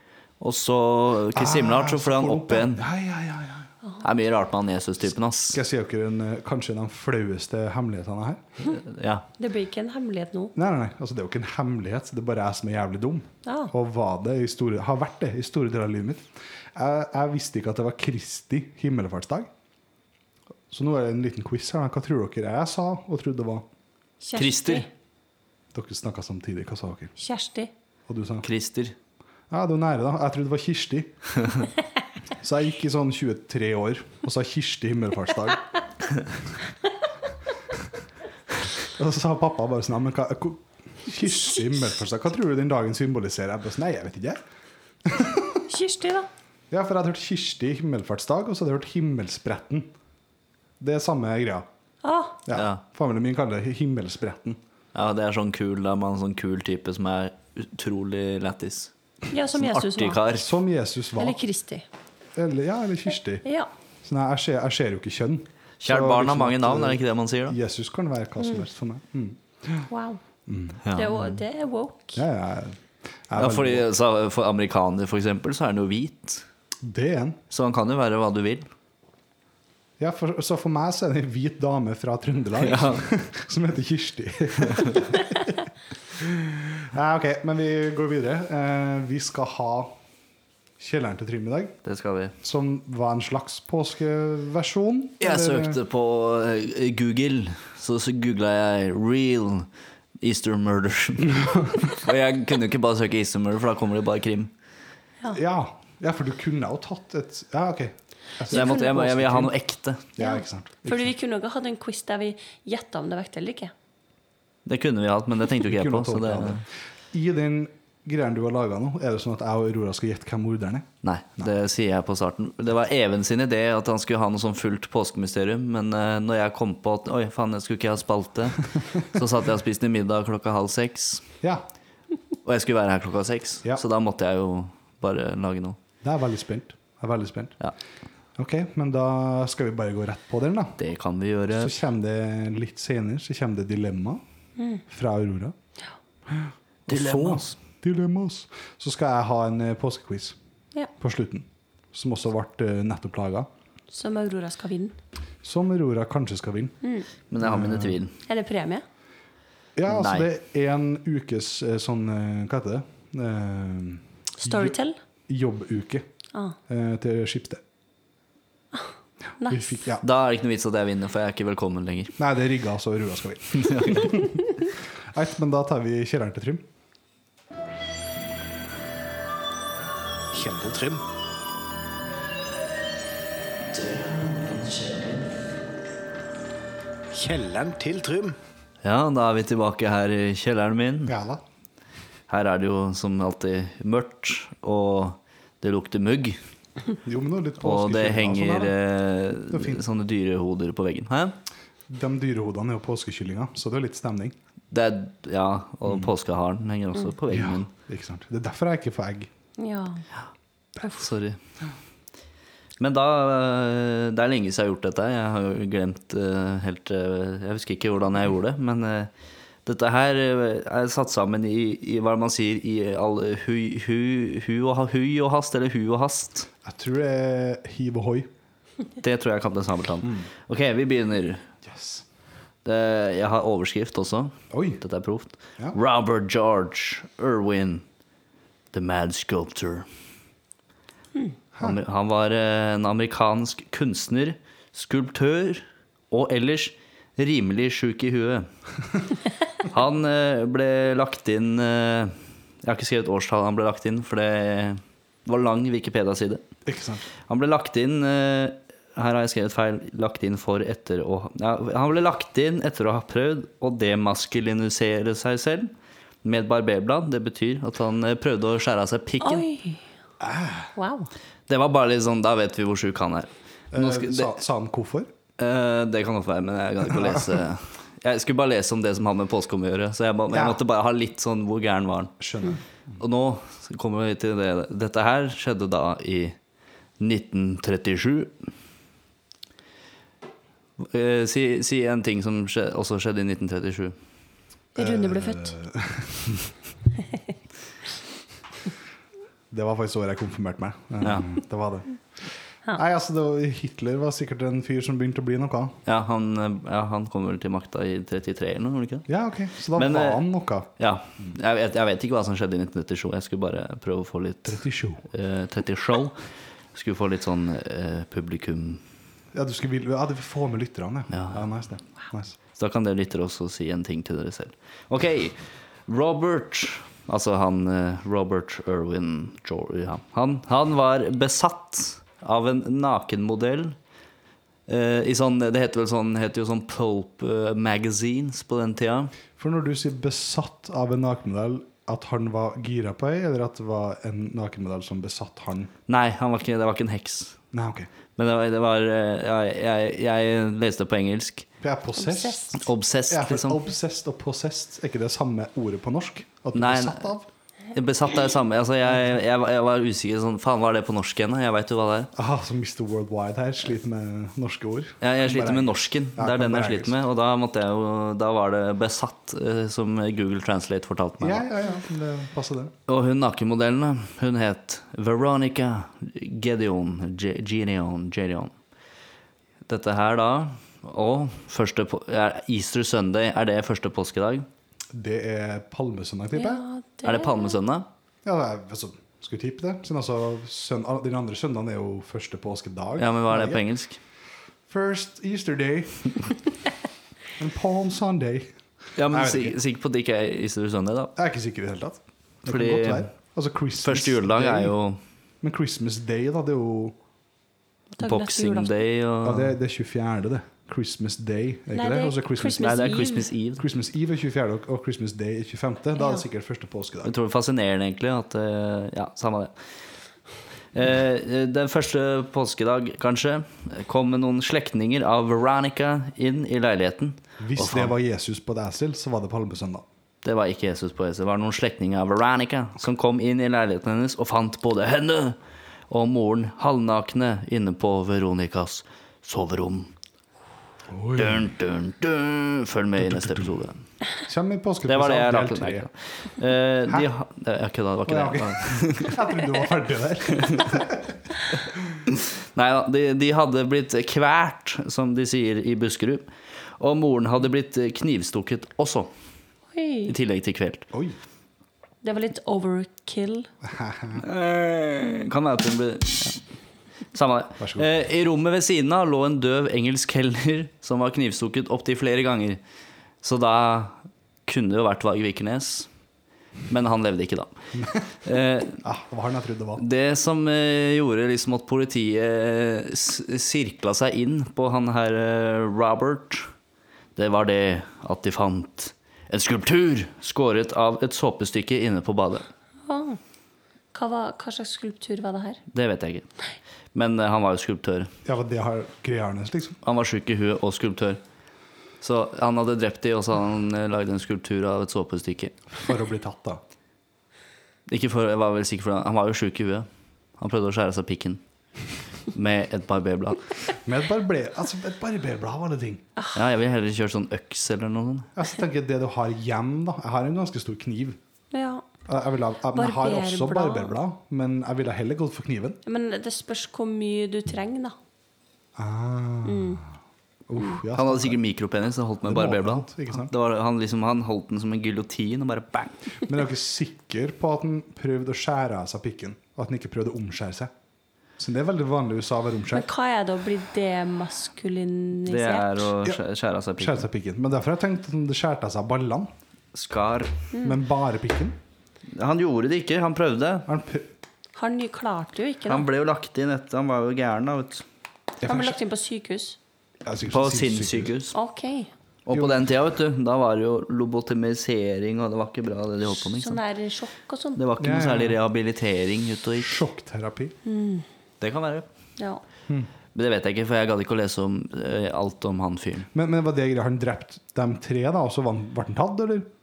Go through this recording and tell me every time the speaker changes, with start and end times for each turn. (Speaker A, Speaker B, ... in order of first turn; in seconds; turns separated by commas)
Speaker A: 0.4-2.8, Speaker B: 1.3-3.7, Speaker A: 4.0-5.6, Speaker B: 5.5-8.4, Speaker A: 8.8-9.2, Speaker C: 9.4-10.5, Speaker B: 10.5-19.5, Speaker C: 13.4-13.7, Speaker B: 20.7-23.6, Speaker C: 24.2-24.9, Speaker A: 24.3-24.9, Speaker B: 25.7-27.1, Speaker C: 27.2-27.7, Speaker B: 28.1-28.5, Speaker A: 28.4-28.9, Speaker B: 29.5-31.1, Speaker B: 32.4-35.6, Speaker B: 38.8-44.4, Speaker B: 45.0-45.6, Speaker C: 45.7-46.3, Speaker B: 46.7-49.9, Speaker B: 50.8-51.7, Speaker C: 52.0-52.4, Speaker B: 52.5-54.6, Speaker A: 52.5-52.8, Speaker A: 54.9-58.9, Speaker C: 59.3-60.2, Speaker A: 59.6-60.5, Speaker B: 60.3-61.4, Speaker C: 61.2-61.8, Speaker B: 62.3-63.4, Speaker C: 63.4-63.7, Speaker B: 64.0-69.9, Speaker A: 65.8-67.5, Speaker C: 69.9-70.2, Speaker B: 70.5-71.3, Speaker A: 70.8-71.1, Speaker C: 70.9-72.2, Speaker B: 72.1-73.9, Speaker A: 73.4-76.4, Speaker B: 76.8-77.4, Speaker A: 77.5-78.7, Speaker B: 80.0-90.0, Speaker A: 82.6-83.0, Speaker A: 84.7-85.0, Speaker B: 90.8-91.8, Speaker A: 91.8-92.3, Speaker B: 92.4-95.8, Speaker A: 95.2-99.7, Speaker A: 100.2-104.5, Speaker B: 105.3-109.5, Speaker A: 108.5-110.0, Speaker B: 110.2-111.1, Speaker C: 110.2-113.7, Speaker A: 114.7-116.6, Speaker B: 115.6-120.9, Speaker A: 121.0-131.3, Speaker A: 132.4-135.8, Speaker B: 136.0-137.6, Speaker B: 138.4-140.8, Speaker A: 140.8-141.7, Speaker B: 141.5-144.2, Speaker C: 144.6-144.8, Speaker B: 144.9-145.5, Speaker B: 146.3-150.3, Speaker A: 146.9-147.5, Speaker B: 151.0-153.5, Speaker C: 153.9-154.9, Speaker B: 155.4-156.8, Speaker A: 157.3-158.1, Speaker B: 157.4-158.0, Speaker C: 158.2-158.8, Speaker B: 159.8-164.8, Speaker A: 159.9-160.3, Speaker C: 164.4-165.0, Speaker B: 165.3-166.1, Speaker B: 166.7-167.6, Speaker C: 169.4-169.8, Speaker B: 169.4-170.0, Speaker A: 170.0-172.2, Speaker B: 172.2-176.6, Speaker A: 173.5-174.1, Speaker D: 180.3-181.0, Speaker A: 183.7-185.3, Speaker D: 187.1-188.4, Speaker A: 188.8-191.1, Speaker B: 191.1-191.4, Speaker A: 192.3-196.4, Speaker B: 197.0-198.8, Speaker A: 197.6-201.3, Speaker B: 199.5-199.8, Speaker B: 201.9-204.3, Speaker A: 204.7-207.7, Speaker B: 207.3-209.3, Speaker C: 209.6-210.0, Speaker A: 210.9-211.4, Speaker A: 212.8-219.1, Speaker A: 219.6-226.5, Speaker B: 226.6-228.3, Speaker A: 229.0-231.4, Speaker B: 231.6-232.0, Speaker A: 232.6-237.8, Speaker B: 234.5-234.8, Speaker A: 238.7-239.8, Speaker A: 241.6-248.5, Speaker A: 249.6-256.4, Speaker B: 256.6-257.0, Speaker A: 257.3-265.7, Speaker A: 266.2-269.4, Speaker C: 269.2-269.8, Speaker B: 270.2-270.7, Speaker C: 270.7-271.1, Speaker A: 271.5-274.3, Speaker B: 273.7-275.1, Speaker A: 275.4-282.1, Speaker B: 280.3-280.6, Speaker B: 282.2-282.6, Speaker A: 283.0-286.4, Speaker A: 287.0-288.4, Speaker A: 290.8-293.9, Speaker C: 294.7-295.5, Speaker B: 294.8-296.5, Speaker B: 299.5-302.0, Speaker A: 301.0-301.3, Speaker B: 302.7-305.8, Speaker A: 305.9-309.1, Speaker B: 309.1-310.7, Speaker A: 309.7-310.2, Speaker A: 310.8-316.2, Speaker B: 314.5-315.0, Speaker A: 316.7-318.8, Speaker B: 319.3-322.4, Speaker A: 321.1-321.4, Speaker A: 322.6-333.8, Speaker A: 334.7-339.1, Speaker B: 339.4-345.7, Speaker A: 345.9-347.4, Speaker B: 347.5-347.9, Speaker A: 348.2-351.5, Speaker B: 351.6-352.4, Speaker C: 351.9-352.6, Speaker A: 352.6-353.6, Speaker B: 353.1-357.3, Speaker A: 356.5-357.1, Speaker A: 357.7-362.1, Speaker B: 362.1-366.9, Speaker A: 365.0-371.5, Speaker B: 371.2-372.7, Speaker A: 372.9-378.5, Speaker A: 379.7-384.5, Speaker B: 384.9-386.6, Speaker C: 386.3-387.6, Speaker A: 387.0-387.9, Speaker B: 388.2-393.6, Speaker A: 393.0-394.0, Speaker B: 394.7-396.4, Speaker B: 397.4-398.5, Speaker A: 398.9-401.1, Speaker B: 399.1-399.6, Speaker B: 401.1-404.7, Speaker A: 402.5-403.1, Speaker A: 403.8-405.0, Speaker B: 405.4-406.9, Speaker C: 408.0-408.7, Speaker A: 408.0-409.5, Speaker B: 409.2-417.1, Speaker C: 411.7-413.3, Speaker A: 412.6-413.6, Speaker A: 417.0-419.7, Speaker A: 420.7-427.9, Speaker B: 427.4-429.8, Speaker A: 430.2-435.4, Speaker A: 435.9-439.9, Speaker B: 440.9-441.5, Speaker A: 441.1-443.8, Speaker B: 443.0-443.5, Speaker B: 444.2-445.9, Speaker A: 444.9-449.3, Speaker B: 448.1-451.1, Speaker A: 450.3-450.7, Speaker A: 452.1-459.1, Speaker C: 459.7-460.1, Speaker A: 460.1-460.9, Speaker B: 460.9-461.2, Speaker C: 462.0-463.5, Speaker B: 463.6-464.2, Speaker A: 464.1-466.4, Speaker A: 467.1-472.6, Speaker B: 467.6-467.9, Speaker A: 473.2-475.9, Speaker A: 476.7-478.8, Speaker B: 477.8-478.0, Speaker B: 478.8-479.8, Speaker A: 479.8-486.5, Speaker A: 487.1-492.5, Speaker C: 492.9-493.2, Speaker C: 493.9-495.6, Speaker A: 495.7-496.3, Speaker A: 496.9-498.1, Speaker B: 498.2-499.8, Speaker A: 499.8-501.2, Speaker A: 502.0-505.6, Speaker B: 505.7-506.6, Speaker A: 507.9-509.9, Speaker A: 510.4-511.4, Speaker A: 512.3-513.5, Speaker B: 513.8-516.0, Speaker A: 516.3-518.3, Speaker B: 518.3-521.2, Speaker C: 521.5-521.8, Speaker B: 522.0-525.8, Speaker C: 522.7-523.9, Speaker C: 525.8-528.0, Speaker B: 528.8-529.9, Speaker C: 529.4-529.8, Speaker B: 530.5-531.4, Speaker A: 530.9-536.0, Speaker B: 532.2-533.3, Speaker B: 536.2-540.7, Speaker B: 541.4-542.9, Speaker C: 542.7-545.8, Speaker A: 545.3-547.0, Speaker B: 546.8-549.3, Speaker A: 549.7-550.3, Speaker B: 550.6-551.6, Speaker A: 552.1-553.7, Speaker B: 553.7-554.1, Speaker C: 554.5-555.9, Speaker A: 555.7-557.8, Speaker B: 558.4-558.8, Speaker C: 558.4-559.6, Speaker B: 560.0-561.1, Speaker A: 560.3-561.3, Speaker C: 561.3-561.9, Speaker A: 562.2-566.6, Speaker B: 562.3-562.6, Speaker C: 566.2-567.6, Speaker A: 567.5-569.8, Speaker B: 567.8-568.4, Speaker B: 569.6-570.5, Speaker C: 570.6-571.0, Speaker A: 571.4-571.9, Speaker A: 573.1-576.1, Speaker B: 576.1-579.5